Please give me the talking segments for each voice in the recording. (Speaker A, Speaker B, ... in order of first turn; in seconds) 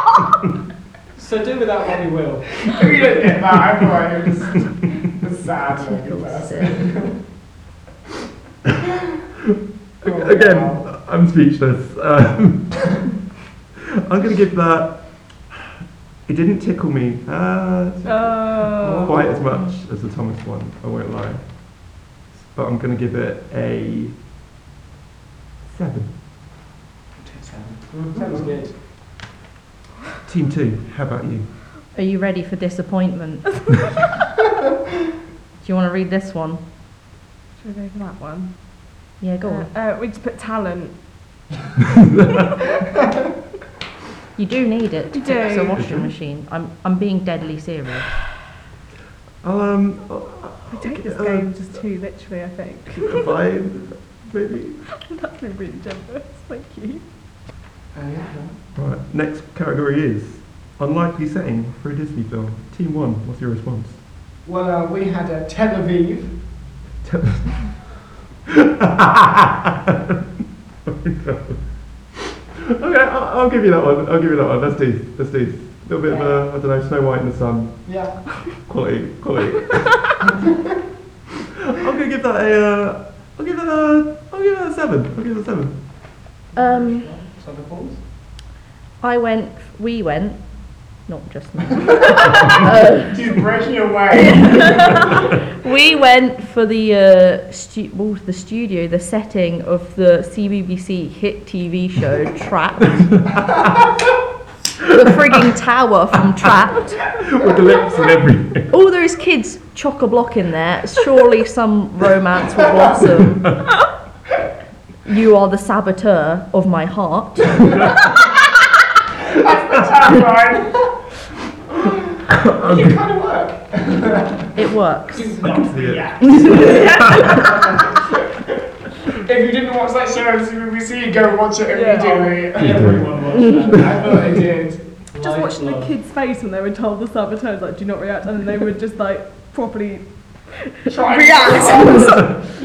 Speaker A: 1.1-2.8, 27.9-28.7, 86.6-88.0, 125.3-126.6, 132.1-134.2, 135.1-135.9
Speaker B: 2.6-7.1, 10.0-10.8, 27.2-28.7, 57.9-58.5, 64.4-66.3, 76.0-76.5, 77.8-78.2, 87.3-87.9, 92.8-95.0, 119.3-120.9, 121.8-124.5, 125.2-128.2, 129.1-134.8, 140.9-142.3
Speaker C: 5.7-6.9, 31.9-33.8, 35.6-36.6, 39.2-39.7, 44.4-48.1, 86.5-87.1, 89.0-93.4, 94.1-103.1, 104.9-107.0, 108.7-113.5, 115.1-117.9, 124.6-125.4, 126.2-127.4
Speaker D: 10.0-13.0, 13.9-15.6, 16.2-21.4, 22.3-24.1, 25.6-26.1, 30.2-31.5, 45.7-46.1, 49.4-51.8, 52.9-54.8, 58.7-64.0, 67.0-67.6, 68.5-70.2, 70.9-71.6, 72.6-80.2, 81.7-85.8, 107.2-108.7, 122.3-122.9, 125.4-127.4, 132.6-133.1
Speaker E: 18.1-19.2, 37.6-38.6, 39.4-40.9, 45.1-45.8, 50.7-53.3, 54.9-57.0, 131.7-132.3, 135.2-140.1, 141.0-142.2